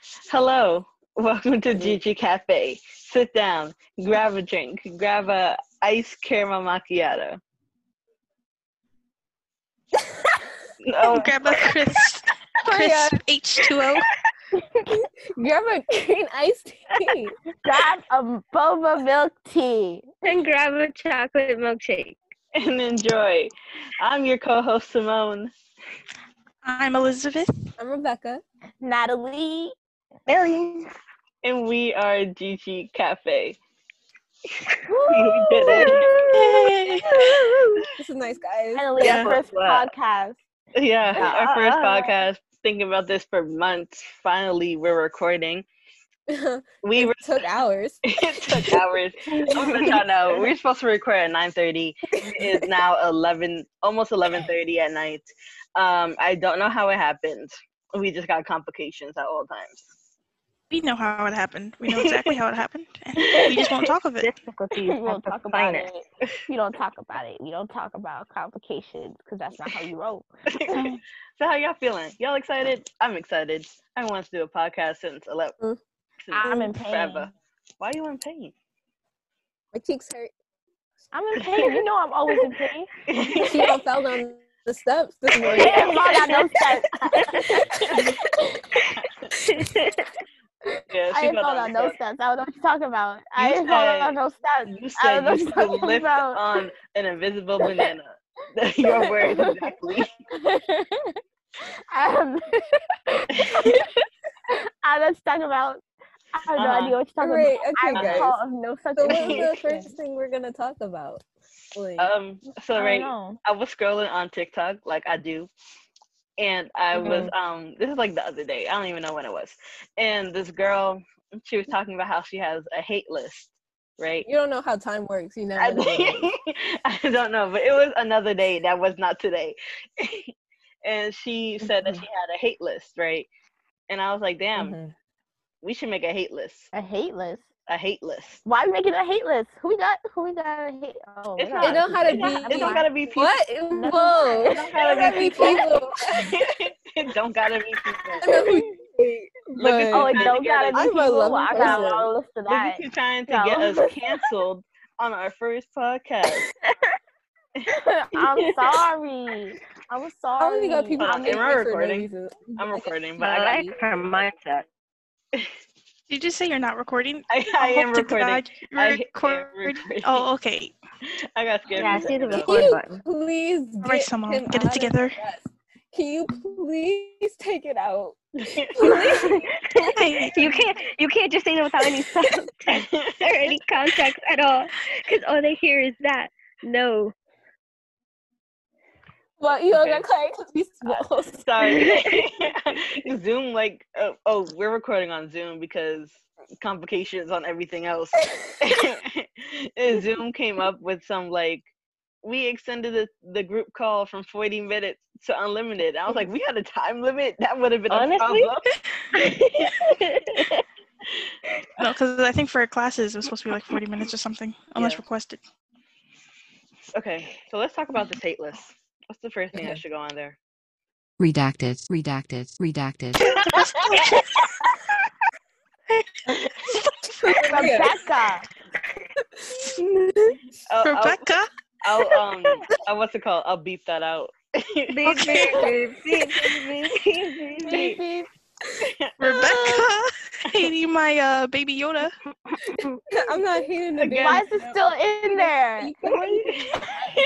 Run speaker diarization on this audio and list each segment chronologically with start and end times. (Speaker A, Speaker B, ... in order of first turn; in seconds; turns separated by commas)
Speaker A: 0.3-7.4, Speaker A: 10.8-11.7, Speaker B: 11.0-14.1, Speaker C: 12.6-13.2, Speaker C: 15.3-17.4, Speaker D: 17.6-20.1, Speaker E: 20.2-22.1, Speaker A: 22.5-25.5, Speaker B: 26.6-27.7, Speaker C: 27.8-28.4, Speaker D: 28.8-29.7, Speaker E: 30.3-30.9, Speaker A: 31.4-33.6, Speaker D: 34.9-36.1, Speaker A: 35.1-37.0, Speaker B: 36.4-37.0, Speaker D: 37.1-37.7, Speaker C: 38.0-39.1, Speaker D: 38.7-40.4, Speaker A: 39.0-39.9, Speaker A: 40.7-45.6, Speaker E: 41.2-42.1, Speaker C: 46.3-48.8, Speaker A: 46.8-47.4, Speaker A: 48.0-59.9, Speaker B: 60.7-64.3, Speaker D: 63.2-63.9, Speaker E: 64.2-65.9, Speaker D: 64.8-70.8, Speaker A: 70.5-70.8, Speaker B: 70.7-71.0, Speaker A: 71.4-75.5, Speaker A: 76.2-78.5, Speaker D: 76.3-77.3, Speaker C: 79.7-80.3, Speaker D: 81.1-82.9, Speaker A: 83.1-83.7, Speaker C: 83.3-85.9, Speaker A: 85.4-86.3, Speaker D: 85.5-88.0, Speaker A: 87.0-88.1, Speaker A: 88.9-89.3, Speaker E: 89.5-90.1, Speaker D: 90.7-96.5, Speaker A: 90.9-92.0, Speaker A: 93.4-100.1, Speaker D: 97.6-97.9, Speaker D: 98.8-99.7, Speaker D: 100.3-101.2, Speaker D: 101.9-103.8, Speaker A: 103.3-103.8, Speaker D: 104.5-109.9, Speaker A: 106.5-107.0, Speaker C: 107.2-108.4, Speaker A: 107.9-108.3, Speaker C: 109.0-111.2, Speaker A: 109.0-109.5, Speaker C: 111.7-112.1, Speaker A: 112.0-115.5, Speaker D: 112.7-113.4, Speaker A: 116.4-124.3, Speaker D: 116.9-117.3, Speaker C: 124.2-126.3, Speaker A: 125.6-130.3, Speaker A: 130.8-133.3, Speaker D: 131.6-132.0, Speaker A: 133.9-134.8, Speaker C: 134.6-134.9, Speaker A: 135.6-136.7, Speaker D: 136.7-137.4, Speaker A: 137.7-138.4, Speaker D: 138.4-142.9, Speaker A: 141.4-143.4, Speaker C: 141.6-146.3, Speaker D: 143.7-145.8, Speaker A: 144.5-148.3, Speaker D: 148.1-148.7, Speaker C: 148.2-152.1, Speaker A: 149.6-150.9, Speaker D: 149.9-153.9, Speaker A: 151.5-151.9, Speaker A: 152.5-156.4, Speaker D: 157.7-161.5, Speaker E: 158.4-158.8, Speaker C: 160.4-162.9, Speaker A: 161.0-163.7, Speaker E: 163.2-164.6, Speaker B: 166.1-170.7, Speaker A: 167.3-170.3, Speaker A: 171.1-172.6, Speaker E: 171.8-172.9, Speaker C: 171.8-180.2, Speaker B: 173.8-175.2, Speaker A: 178.4-179.0, Speaker E: 178.8-187.1, Speaker B: 179.9-180.6, Speaker A: 182.7-183.6, Speaker C: 189.4-191.6, Speaker A: 189.7-190.0, Speaker A: 190.8-201.7, Speaker E: 191.7-192.2, Speaker C: 198.2-198.6, Speaker A: 202.2-208.7, Speaker E: 207.9-208.5, Speaker E: 209.1-210.6, Speaker B: 211.8-215.4, Speaker A: 214.8-215.0, Speaker A: 216.9-220.4, Speaker C: 219.5-219.8, Speaker F: 221.2-223.4, Speaker B: 223.3-224.4, Speaker C: 227.2-227.9, Speaker D: 227.4-228.4, Speaker C: 229.5-230.4, Speaker A: 230.7-235.7, Speaker B: 230.8-231.5, Speaker E: 234.9-238.0, Speaker D: 237.6-238.3, Speaker A: 238.8-239.8, Speaker B: 239.2-242.2, Speaker E: 242.7-243.0, Speaker C: 243.1-246.8, Speaker A: 243.9-244.4, Speaker D: 244.1-245.9, Speaker A: 246.1-247.0